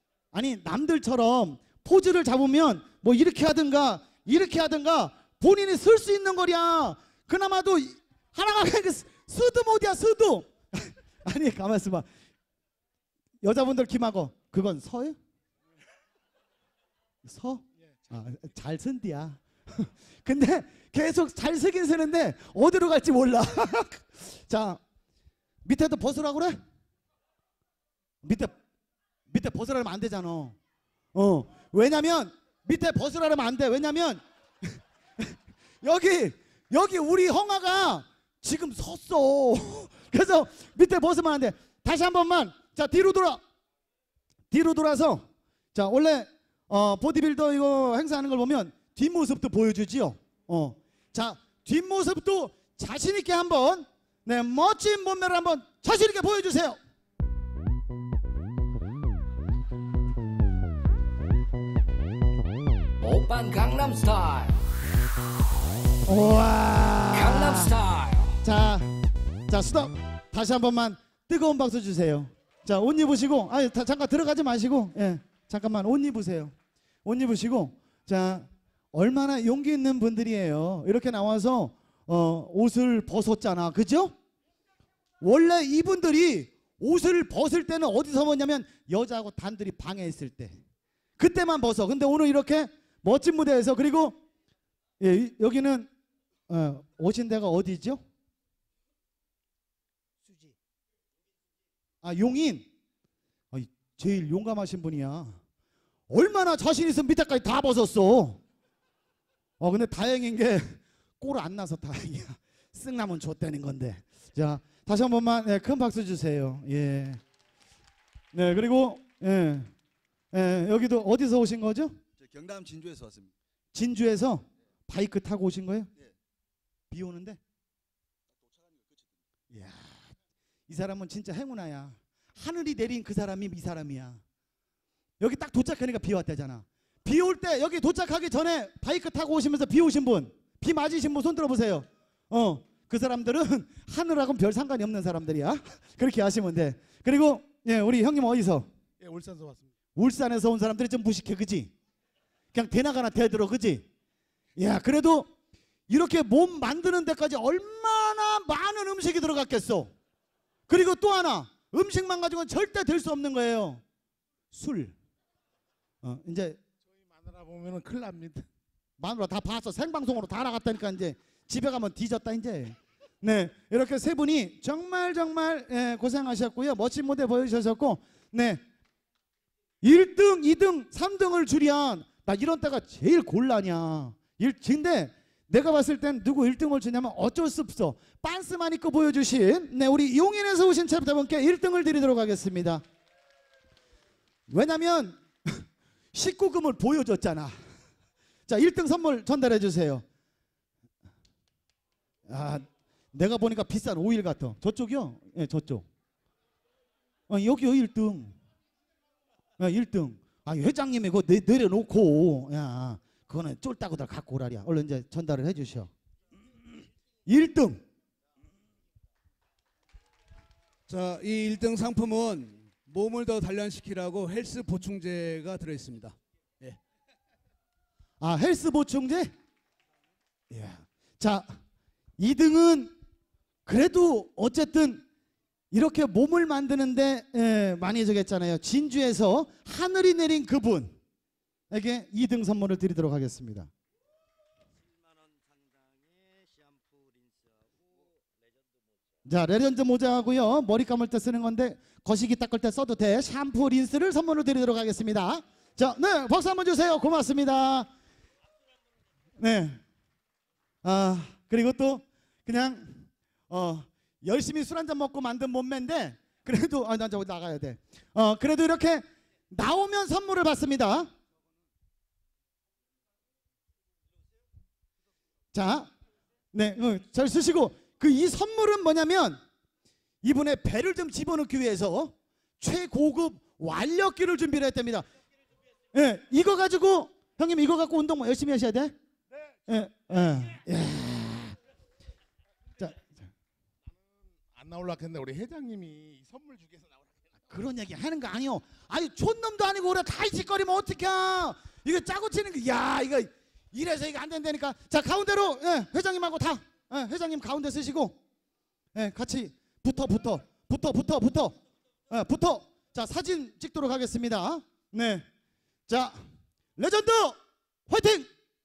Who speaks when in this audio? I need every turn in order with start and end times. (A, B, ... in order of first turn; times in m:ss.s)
0:00.3-0:12.0 A
0:13.4-0:15.2 A
0:17.2-0:24.8 A
0:25.6-0:26.6 A
0:28.2-0:28.6 A
0:29.3-0:30.6 A
0:31.1-0:43.4 A
0:44.5-0:56.8 A
1:03.0-1:04.6 B
1:06.1-1:07.7 A
1:07.1-1:08.4 B
1:08.4-1:08.9 A
1:09.5-1:16.5 A
1:17.0-1:24.1 A
1:25.2-1:30.6 A
1:31.2-1:34.2 A
1:35.0-1:35.9 A
1:36.5-1:38.0 A
1:42.0-1:42.7 A
1:43.5-1:45.4 A
1:46.1-1:48.4 A
1:49.6-1:57.2 A
1:58.3-1:59.7 A
2:00.3-2:02.0 A
2:02.2-2:03.3 C
2:03.7-2:05.9 A
2:06.9-2:07.4 A
2:09.5-2:10.1 A
2:10.7-2:14.2 A
2:15.2-2:28.7 A
2:29.0-2:29.7 C
2:30.0-2:31.7 A
2:32.5-2:33.9 A
2:34.6-2:35.3 A
2:35.9-2:39.9 A
2:40.7-2:43.8 A
2:44.5-2:44.9 A
2:46.0-2:46.6 A
2:46.9-2:48.5 C
2:49.0-2:58.6 A
2:59.8-3:12.8 A
3:14.5-3:17.6 A
3:18.5-3:20.0 A
3:22.3-3:25.9 A
3:27.3-3:28.4 A
3:29.6-3:35.9 A
3:37.2-3:37.8 A
3:40.9-3:46.8 D
3:48.2-3:49.3 A
3:50.5-3:51.6 A
3:52.2-3:52.9 A
3:53.6-3:55.0 A
3:55.7-4:01.0 A
4:01.7-4:03.7 A
4:09.2-4:17.9 A
4:19.4-4:19.8 A
4:20.8-4:31.1 A
4:35.5-4:35.9 A
4:36.5-4:39.4 A
4:40.2-4:45.1 A
4:45.9-4:48.9 A
4:49.7-4:51.6 A
4:52.8-4:53.2 A
4:54.5-4:57.3 C
4:57.5-5:08.2 A
5:08.9-5:11.6 A
5:12.1-5:15.2 A
5:15.9-5:18.3 A